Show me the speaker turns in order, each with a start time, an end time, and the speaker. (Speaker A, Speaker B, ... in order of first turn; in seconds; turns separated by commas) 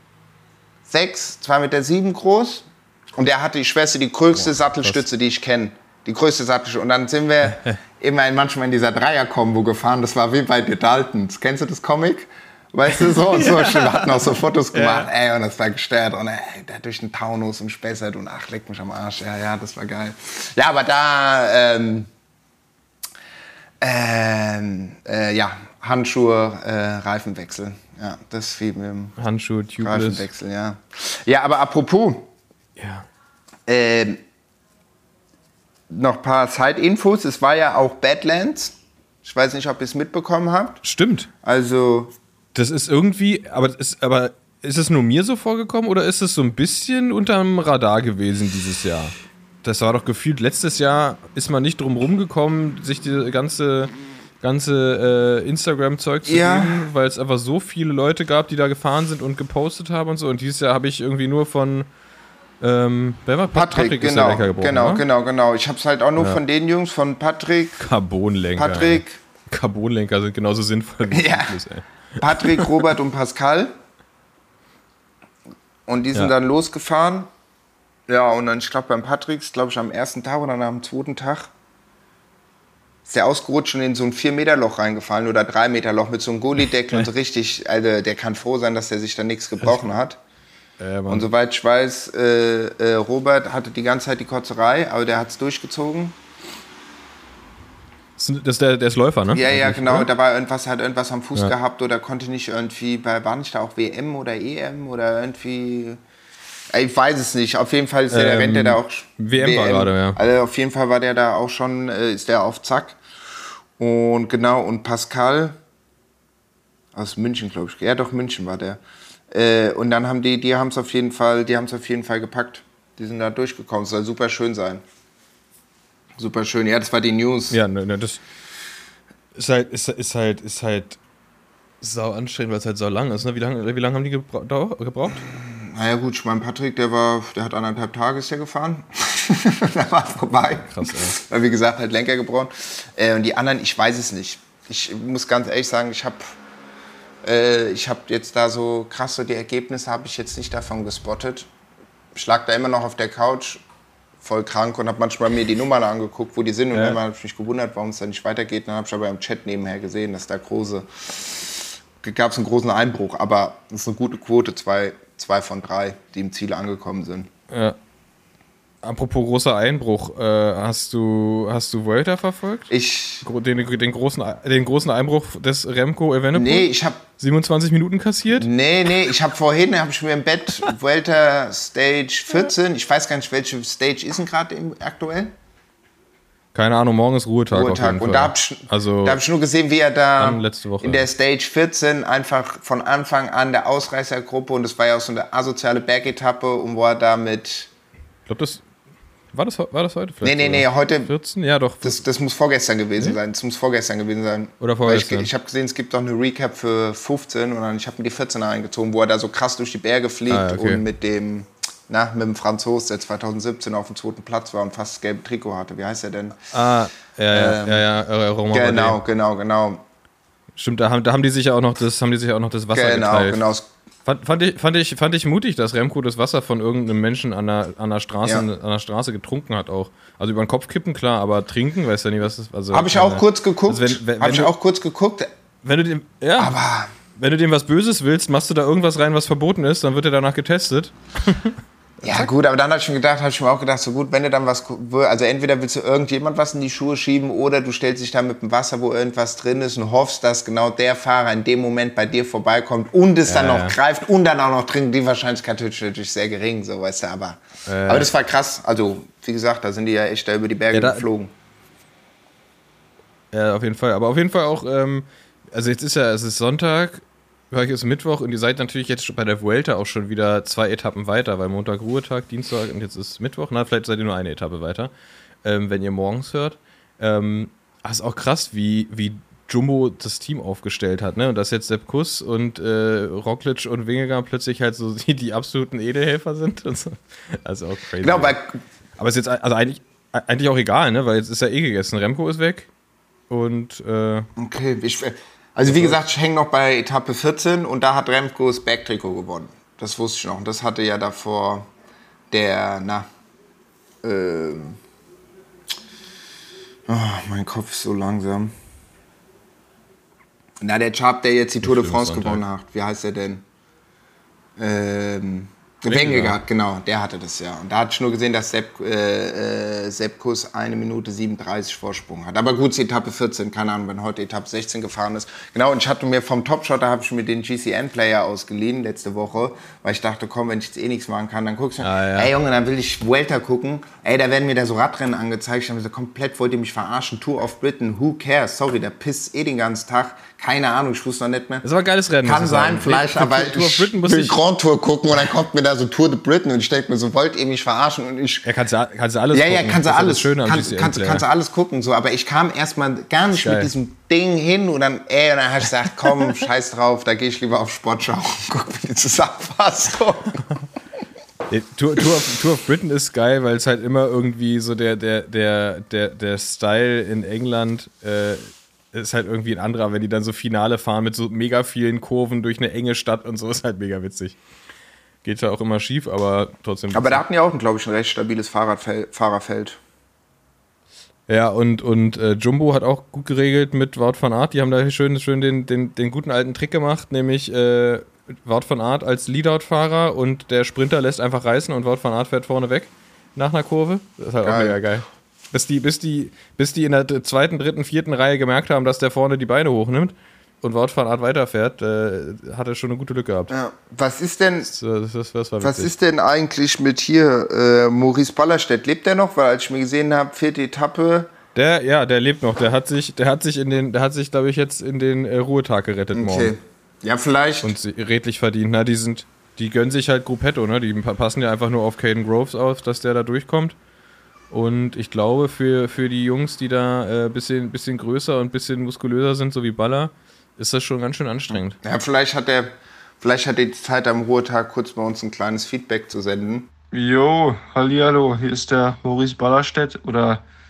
Speaker A: 0.9-22.1, Speaker B: 13.1-15.1, Speaker A: 23.8-29.2, Speaker B: 29.2-30.3, Speaker A: 29.8-32.3, Speaker B: 32.8-33.1, Speaker A: 33.6-34.2, Speaker A: 35.9-40.8, Speaker B: 40.8-41.3, Speaker A: 41.4-42.1, Speaker B: 42.5-53.9, Speaker B: 54.4-61.9, Speaker A: 56.2-56.9, Speaker B: 62.6-65.0, Speaker A: 63.5-67.8, Speaker B: 67.8-72.8, Speaker A: 68.5-69.2, Speaker A: 71.1-71.6, Speaker A: 72.2-73.7, Speaker A: 75.9-77.3, Speaker A: 78.1-81.5, Speaker A: 83.0-90.2, Speaker B: 89.6-89.9, Speaker B: 90.8-91.3, Speaker A: 91.1-96.2, Speaker B: 98.2-100.1, Speaker A: 99.3-106.0, Speaker A: 106.7-113.0, Speaker B: 108.1-110.2, Speaker A: 113.8-115.6, Speaker A: 116.9-124.8, Speaker A: 126.2-127.6, Speaker B: 127.5-128.2, Speaker B: 129.3-131.0, Speaker B: 131.8-135.3, Speaker A: 135.2-146.3, Speaker B: 140.7-141.2, Speaker A: 147.2-151.5, Speaker A: 152.1-153.6, Speaker A: 154.2-167.3, Speaker B: 156.7-157.0, Speaker B: 167.5-167.8, Speaker B: 168.8-172.7, Speaker A: 172.7-173.2, Speaker B: 173.2-178.5, Speaker A: 176.3-177.0, Speaker A: 178.3-185.3, Speaker B: 186.5-189.2, Speaker A: 187.5-197.7, Speaker B: 190.2-191.1, Speaker B: 198.3-198.6, Speaker B: 199.3-202.0, Speaker A: 200.2-201.1, Speaker A: 201.8-216.4, Speaker B: 204.6-205.3, Speaker B: 210.3-210.8, Speaker B: 216.5-219.0, Speaker A: 217.3-217.8, Speaker A: 218.5-219.8, Speaker B: 220.6-223.4, Speaker A: 222.7-223.7, Speaker B: 224.0-234.5, Speaker A: 232.7-235.3, Speaker B: 235.6-236.5, Speaker A: 236.4-236.9, Speaker B: 237.2-242.3, Speaker A: 242.0-261.3, Speaker B: 253.2-253.8, Speaker B: 257.6-258.1, Speaker B: 260.7-261.1, Speaker B: 263.3-274.9, Speaker B: 275.4-288.4, Speaker A: 288.0-288.6, Speaker B: 289.0-292.7, Speaker B: 293.3-294.3, Speaker A: 294.4-301.7, Speaker B: 295.7-296.0, Speaker A: 302.3-303.1, Speaker A: 304.0-304.8, Speaker A: 306.9-308.5, Speaker A: 310.6-313.4, Speaker B: 311.6-312.4, Speaker A: 314.6-341.6, Speaker B: 315.9-316.4, Speaker B: 331.8-332.3, Speaker B: 341.6-344.4, Speaker A: 342.2-348.4, Speaker B: 348.4-351.2, Speaker A: 349.3-360.4, Speaker B: 353.3-353.7, Speaker B: 361.5-374.4, Speaker B: 375.2-377.2, Speaker A: 376.9-379.8, Speaker B: 381.3-403.5, Speaker A: 394.4-394.8, Speaker A: 403.5-404.7, Speaker B: 404.6-405.9, Speaker A: 405.6-411.3, Speaker B: 411.5-416.5, Speaker A: 416.1-417.7, Speaker B: 417.6-423.8, Speaker B: 424.5-431.8, Speaker A: 431.8-436.7, Speaker C: 436.9-440.4